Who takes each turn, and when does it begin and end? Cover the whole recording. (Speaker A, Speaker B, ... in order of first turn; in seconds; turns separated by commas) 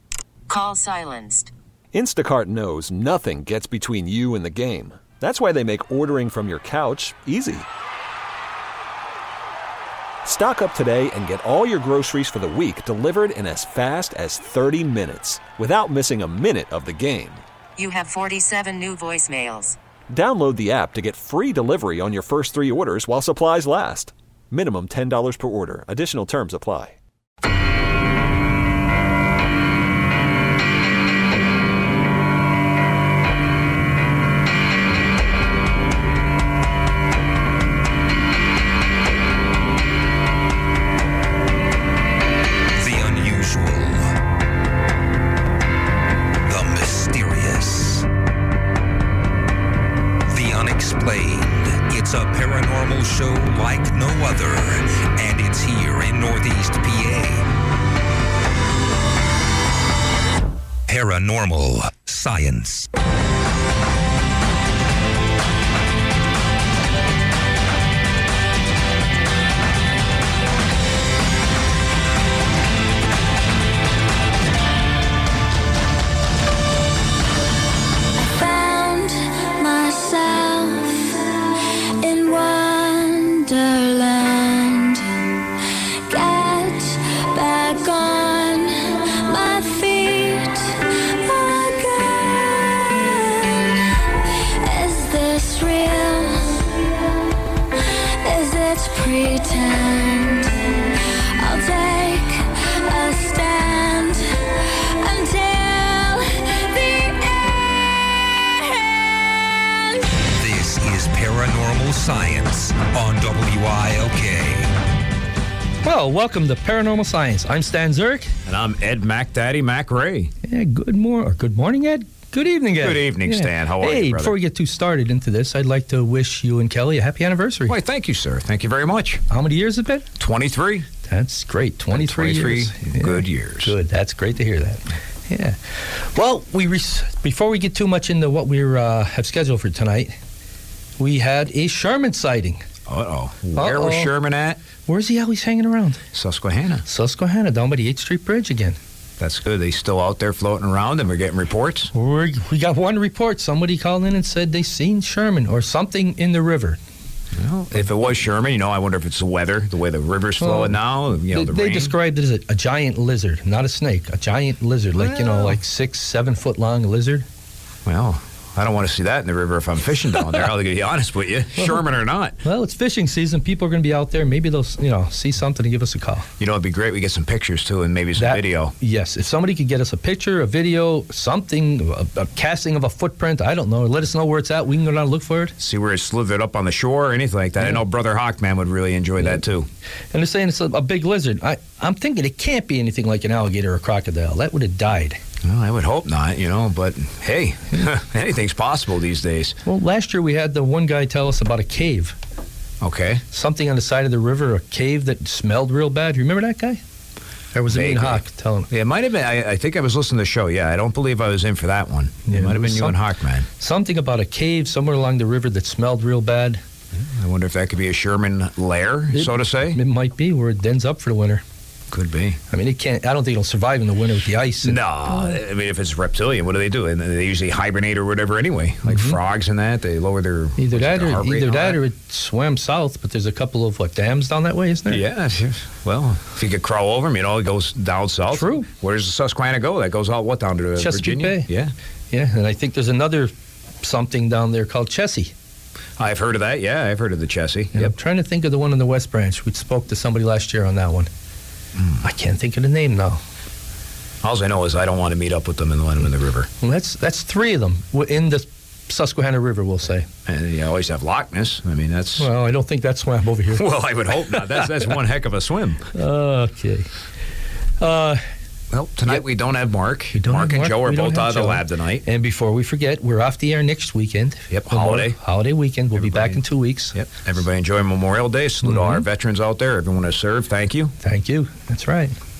Speaker A: 0.5-1.5, Speaker B: 1.9-7.7, Speaker B: 10.2-17.4, Speaker A: 17.8-19.8, Speaker B: 20.1-27.0, Speaker C: 42.7-44.1, Speaker C: 46.5-48.1, Speaker C: 50.3-57.5, Speaker C: 60.9-62.9, Speaker D: 78.1-85.5, Speaker D: 86.0-107.8, Speaker D: 108.6-110.1, Speaker C: 110.3-114.7, Speaker E: 115.8-118.3, Speaker F: 118.5-120.3, Speaker E: 120.4-127.7, Speaker F: 122.8-124.3, Speaker F: 127.7-129.2, Speaker E: 129.3-130.1, Speaker F: 130.2-130.9, Speaker E: 131.1-140.1, Speaker F: 131.9-133.8, Speaker E: 141.0-142.6, Speaker F: 142.9-144.6, Speaker E: 143.5-144.1, Speaker E: 144.9-146.0, Speaker F: 146.1-146.8, Speaker E: 146.9-148.8, Speaker F: 149.2-151.9, Speaker E: 151.9-156.8, Speaker F: 157.3-161.9, Speaker E: 160.4-167.2, Speaker F: 165.0-165.6, Speaker F: 167.8-172.4, Speaker E: 171.6-171.8, Speaker E: 172.4-176.3, Speaker F: 176.4-178.7, Speaker E: 178.2-185.6, Speaker F: 185.6-189.7, Speaker E: 190.1-195.2, Speaker F: 195.4-199.6, Speaker E: 199.7-202.2, Speaker F: 202.8-203.2, Speaker E: 203.3-206.8, Speaker E: 207.5-208.7, Speaker F: 207.7-213.5, Speaker E: 212.2-213.0, Speaker E: 213.6-216.6, Speaker F: 216.9-219.8, Speaker E: 219.1-221.4, Speaker F: 221.9-222.4, Speaker E: 222.5-225.4, Speaker F: 224.6-231.8, Speaker E: 228.8-229.2, Speaker E: 230.6-235.0, Speaker F: 234.9-241.7, Speaker E: 238.3-238.7, Speaker E: 240.8-241.5, Speaker E: 242.1-243.3, Speaker E: 243.8-245.3, Speaker F: 246.0-247.9, Speaker E: 247.7-251.1, Speaker E: 252.0-253.2, Speaker F: 254.2-256.5, Speaker E: 256.6-260.1, Speaker F: 260.2-262.3, Speaker E: 262.2-263.6, Speaker F: 263.5-265.9, Speaker E: 265.9-266.9, Speaker E: 267.8-268.2, Speaker F: 268.7-272.0, Speaker E: 270.1-276.9, Speaker F: 274.5-275.2, Speaker F: 275.9-276.4, Speaker F: 276.9-280.9, Speaker E: 278.6-279.0, Speaker E: 281.0-282.1